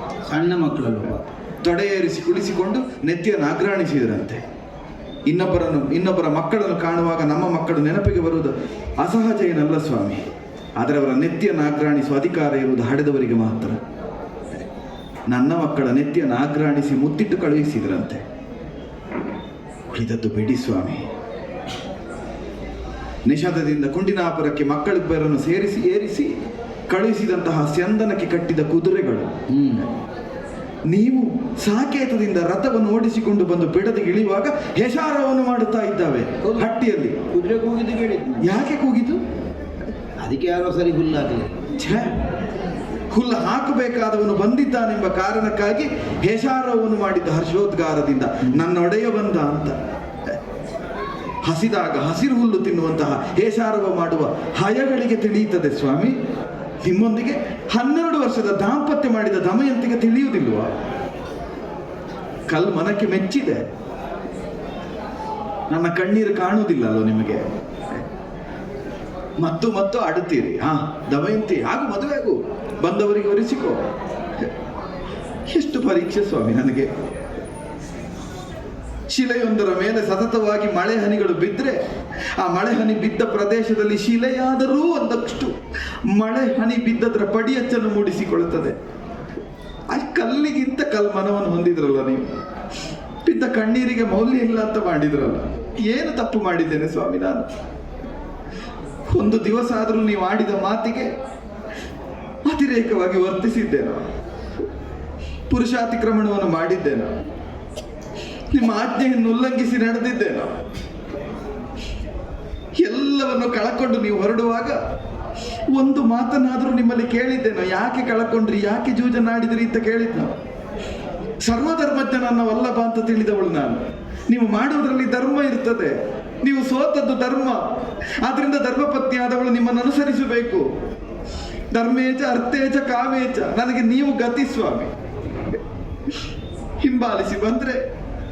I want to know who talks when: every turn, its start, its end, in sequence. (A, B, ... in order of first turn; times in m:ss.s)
0:00.2-0:01.3 A
0:01.6-0:04.4 B
0:05.3-0:10.2 B
0:10.8-0:13.8 B
0:15.3-0:18.2 B
0:19.9-0:21.0 B
0:23.2-0:26.3 B
0:26.9-0:29.3 B
0:29.5-0:29.8 A
0:30.9-0:37.2 B
0:36.4-0:36.7 A
0:37.2-0:38.5 A
0:38.4-0:39.2 B
0:40.2-0:41.5 A
0:41.8-0:42.1 B
0:43.1-0:49.8 B
0:51.4-0:56.1 B
0:56.8-1:00.7 B
1:02.5-1:03.6 B
1:05.7-1:08.0 B
1:09.4-1:13.8 B
1:15.5-1:16.9 B
1:19.1-1:21.8 B
1:22.4-1:25.5 B
1:26.1-1:28.8 B
1:29.9-1:32.3 B
1:33.2-1:37.5 B
1:39.1-1:41.1 B
1:42.4-1:44.0 B
1:45.5-1:47.1 B
1:48.5-1:50.5 B
1:52.8-1:54.8 B
1:55.7-2:00.3 B
2:01.4-2:07.6 B
2:08.2-2:10.6 B
2:11.7-2:14.9 B
2:16.8-2:17.8 B